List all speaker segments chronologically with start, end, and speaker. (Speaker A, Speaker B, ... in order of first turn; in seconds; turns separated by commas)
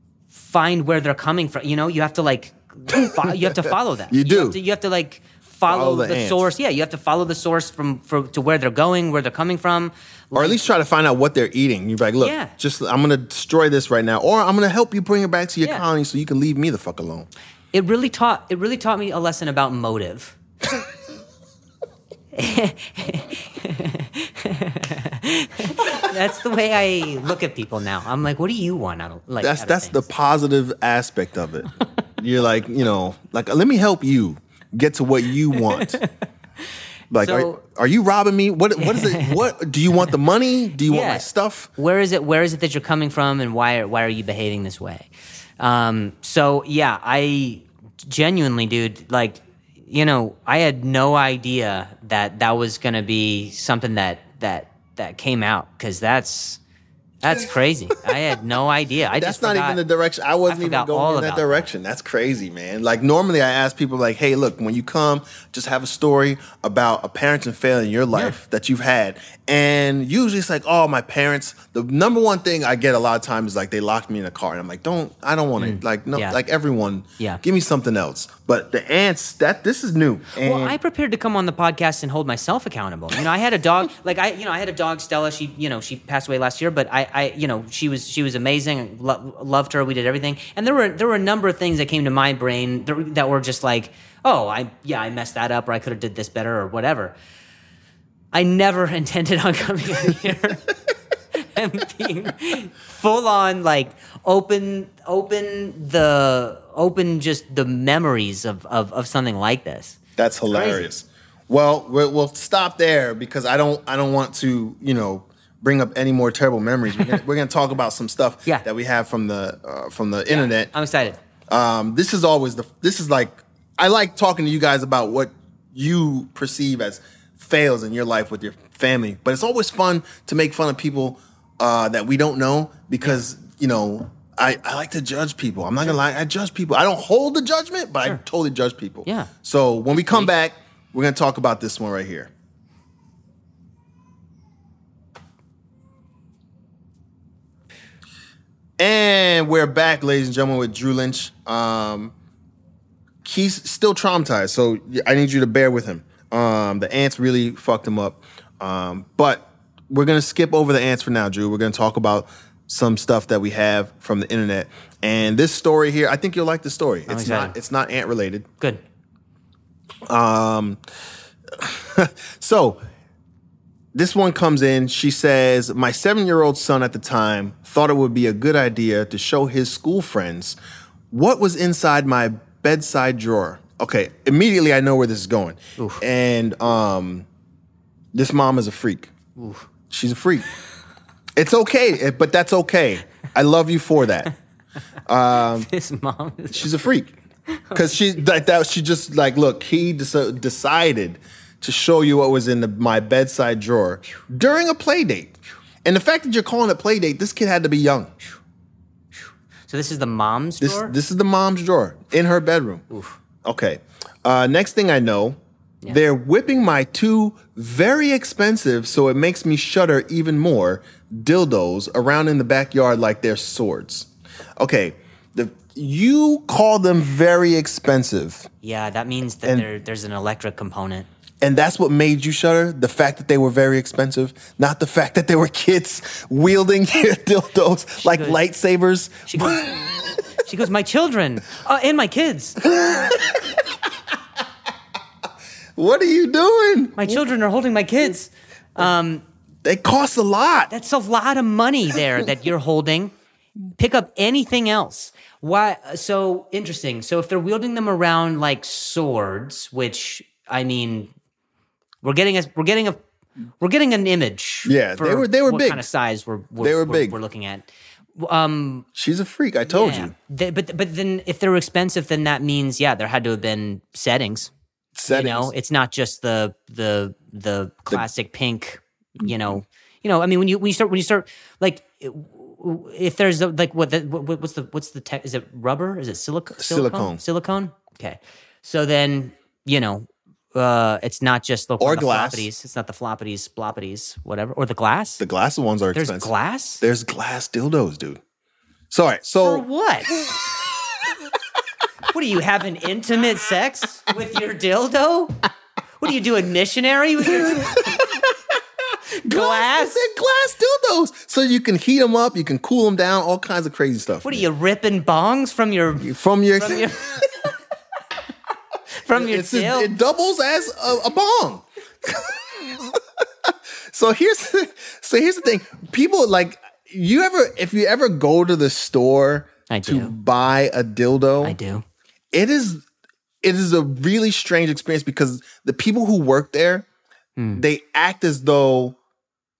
Speaker A: 0.3-10.6, Speaker B: 2.9-4.6, Speaker B: 5.7-6.5, Speaker B: 10.3-17.3, Speaker A: 12.2-12.5, Speaker A: 17.7-20.4, Speaker A: 22.3-30.1, Speaker B: 29.4-36.0, Speaker A: 35.6-36.1, Speaker B: 37.1-41.7, Speaker A: 37.2-37.6, Speaker A: 38.8-39.4, Speaker A: 40.8-56.6, Speaker A: 57.2-59.8, Speaker B: 59.1-80.8, Speaker A: 60.5-61.7, Speaker A: 75.6-76.4, Speaker A: 80.3-97.1, Speaker A: 98.3-100.7, Speaker A: 101.3-110.0, Speaker B: 110.2-120.7, Speaker A: 110.5-110.9, Speaker A: 120.3-121.2, Speaker B: 121.5-142.3, Speaker A: 139.0-139.3, Speaker B: 148.8-152.1, Speaker B: 153.2-168.4, Speaker A: 167.1-167.5, Speaker B: 170.1-170.8, Speaker B: 171.5-172.8, Speaker B: 173.9-180.6, Speaker B: 181.1-187.2, Speaker A: 185.8-186.0, Speaker B: 188.1-189.1, Speaker A: 189.3-189.7, Speaker B: 189.9-190.4, Speaker B: 191.4-194.3, Speaker B: 195.1-195.7, Speaker A: 195.6-196.7, Speaker B: 196.5-197.1, Speaker A: 197.5-197.9, Speaker B: 197.7-208.1, Speaker A: 209.2-210.9, Speaker B: 210.6-212.8, Speaker A: 212.9-213.2, Speaker B: 213.4-228.5, Speaker A: 228.6-231.1, Speaker B: 231.4-240.2, Speaker A: 238.0-238.4, Speaker A: 239.3-239.6, Speaker A: 240.4-243.1, Speaker B: 242.6-243.8, Speaker B: 245.8-247.2, Speaker A: 247.0-249.2, Speaker B: 249.6-250.7, Speaker A: 250.7-253.1, Speaker A: 253.8-261.1, Speaker A: 262.0-263.0, Speaker A: 263.6-268.9, Speaker B: 264.6-265.9, Speaker B: 266.6-267.2, Speaker B: 268.9-270.1, Speaker A: 269.7-274.5, Speaker B: 274.9-275.5, Speaker A: 275.1-295.2, Speaker B: 286.6-287.2, Speaker B: 291.8-292.5, Speaker B: 295.2-298.2, Speaker A: 295.9-296.8, Speaker B: 298.9-299.6, Speaker A: 299.4-300.1, Speaker B: 300.2-300.7, Speaker A: 302.1-305.4, Speaker A: 306.0-307.9, Speaker B: 307.4-314.4, Speaker A: 309.2-310.0, Speaker A: 314.2-317.1, Speaker B: 316.0-317.0, Speaker A: 318.9-319.9, Speaker B: 319.1-331.6, Speaker A: 329.7-330.1, Speaker A: 331.4-331.8, Speaker B: 332.3-332.8, Speaker B: 333.4-336.9, Speaker A: 337.4-337.6, Speaker B: 337.5-339.0